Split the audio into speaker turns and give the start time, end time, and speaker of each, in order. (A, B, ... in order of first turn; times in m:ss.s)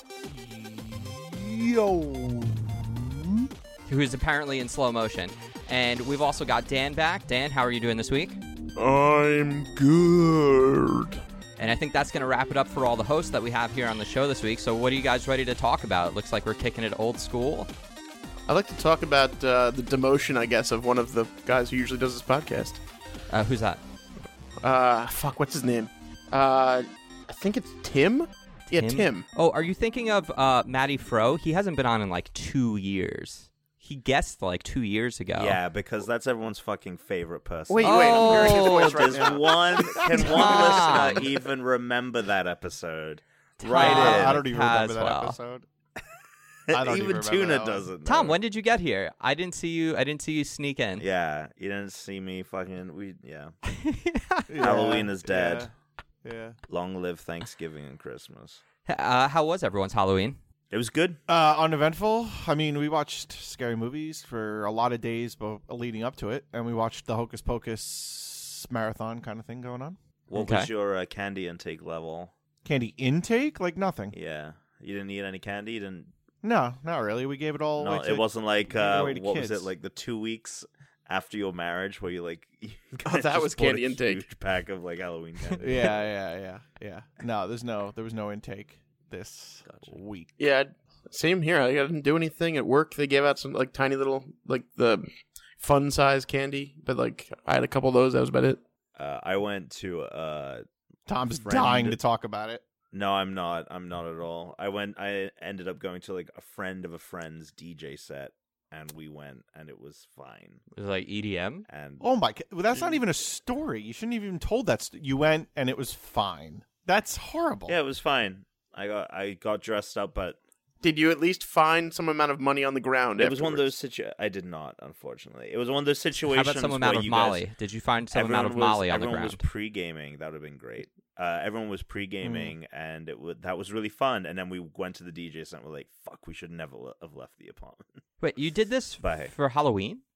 0:00.2-0:03.5 A
0:03.9-0:08.4 B
0:08.8-0:11.2 C
0:11.6-0:17.7 B
0:18.5-0:22.8 C
0:23.3-0:23.8 B
0:24.6-0:29.2 C
0:28.7-0:35.6 B
0:35.4-0:44.4 D
0:37.7-0:39.6 C
0:37.8-0:39.0 B
0:39.1-0:40.7 A
0:40.2-0:40.9 C
0:40.2-0:41.2 B
0:43.6-0:45.4 B
0:43.6-0:45.7 A
0:46.7-0:48.4 D
0:46.7-0:47.8 A
0:48.0-0:51.0 B
0:51.0-0:53.6 D
0:53.7-0:54.7 B
0:54.5-0:55.7 A
0:54.6-0:55.7 D
0:56.2-0:56.6 A
0:56.7-0:58.6 D
0:58.8-1:00.4 B
1:00.7-1:01.2 D
1:01.3-1:10.0 A
1:10.3-1:12.3 D
1:10.3-1:10.7 B
1:12.6-1:14.1 A
1:14.1-1:16.1 D
1:16.4-1:19.7 A
1:17.8-1:26.0 D
1:23.0-1:24.2 C
1:25.6-1:30.3 A
1:29.7-1:30.0 D
1:30.4-1:35.0 C
1:35.6-1:38.6 C
1:39.0-1:40.6 D
1:41.1-1:42.6 A
1:41.4-1:42.0 D
1:42.9-1:50.6 D
1:50.8-1:51.6 B
1:51.7-1:52.0 D
1:52.0-1:57.8 A
1:57.7-2:00.4 D
2:00.8-2:03.7 C
2:03.2-2:07.4 D
2:06.3-2:09.4 B
2:08.1-2:17.8 D
2:12.2-2:12.5 A
2:18.2-2:20.0 B
2:19.0-2:19.3 D